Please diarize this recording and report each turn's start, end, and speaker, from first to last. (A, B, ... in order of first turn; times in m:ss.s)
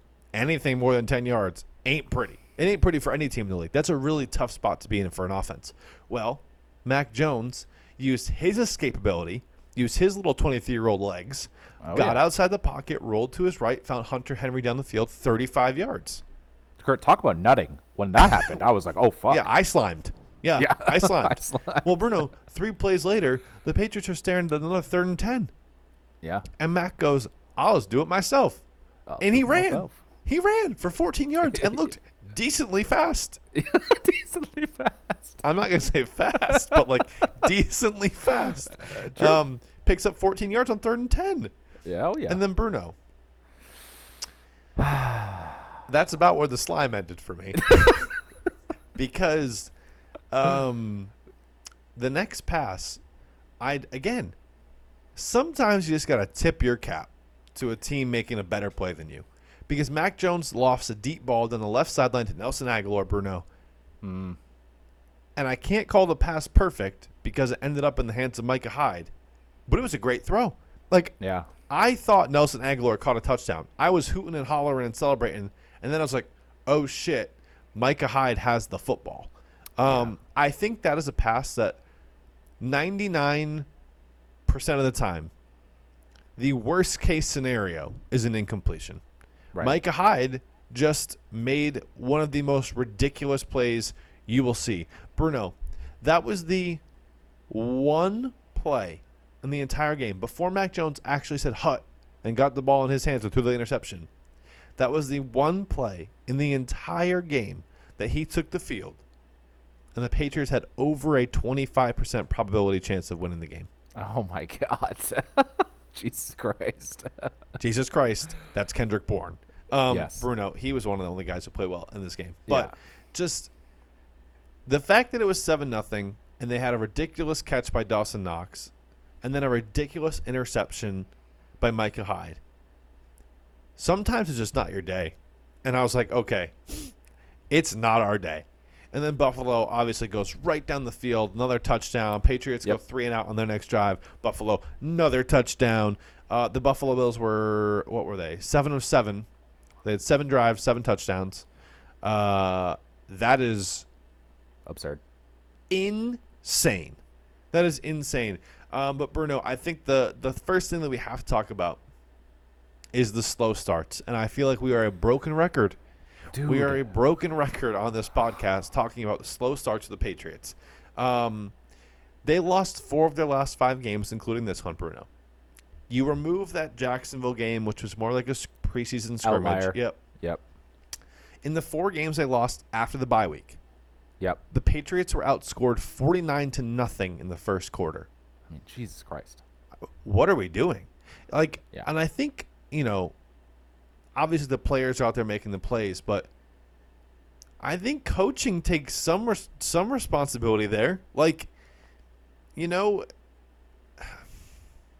0:00.3-0:16.2 A
0:11.8-0:12.2 B
0:16.8-0:19.5 B
0:19.3-0:25.5 A
0:20.6-0:21.9 B
0:26.6-0:28.6 A
0:29.1-0:30.0 B
0:29.2-0:33.4 A
0:31.5-0:31.9 B
0:33.5-0:35.4 B
0:35.4-0:41.5 A
0:36.5-0:37.3 B
0:38.8-0:39.4 B
0:41.8-0:42.4 B
0:42.3-0:42.9 A
0:44.8-0:45.7 B
0:45.9-0:48.1 A
0:48.9-0:49.7 A
0:50.3-0:51.1 A
0:51.9-0:53.0 A
0:53.6-0:54.3 A
0:55.1-1:03.4 A
1:04.0-1:04.4 B
1:05.4-1:09.1 A
1:09.7-1:21.8 A
1:11.2-1:11.5 B
1:19.8-1:20.1 B
1:22.6-1:23.7 A
1:24.4-1:25.3 A
1:26.4-1:29.0 A
1:29.6-1:36.8 A
1:37.5-1:44.1 A
1:44.8-1:49.0 A
1:49.9-1:53.7 A
1:54.0-1:57.3 B
1:57.6-2:03.5 A
1:59.9-2:00.3 B
2:02.5-2:02.7 B
2:04.6-2:12.4 A
2:13.8-2:16.9 A
2:17.5-2:29.3 A
2:29.8-2:31.4 A
2:32.0-2:33.8 A
2:34.6-2:35.0 B
2:35.7-2:37.0 A
2:37.5-2:41.8 A
2:42.9-2:45.8 A
2:46.3-2:46.9 B
2:46.4-2:51.5 A
2:52.2-2:55.1 A
2:55.9-3:00.0 A
2:59.2-3:00.4 B
3:01.4-3:03.6 A
3:04.5-3:08.1 A
3:08.5-3:09.4 B
3:10.0-3:13.1 A
3:14.1-3:16.3 A
3:17.6-3:21.5 A
3:22.6-3:23.1 A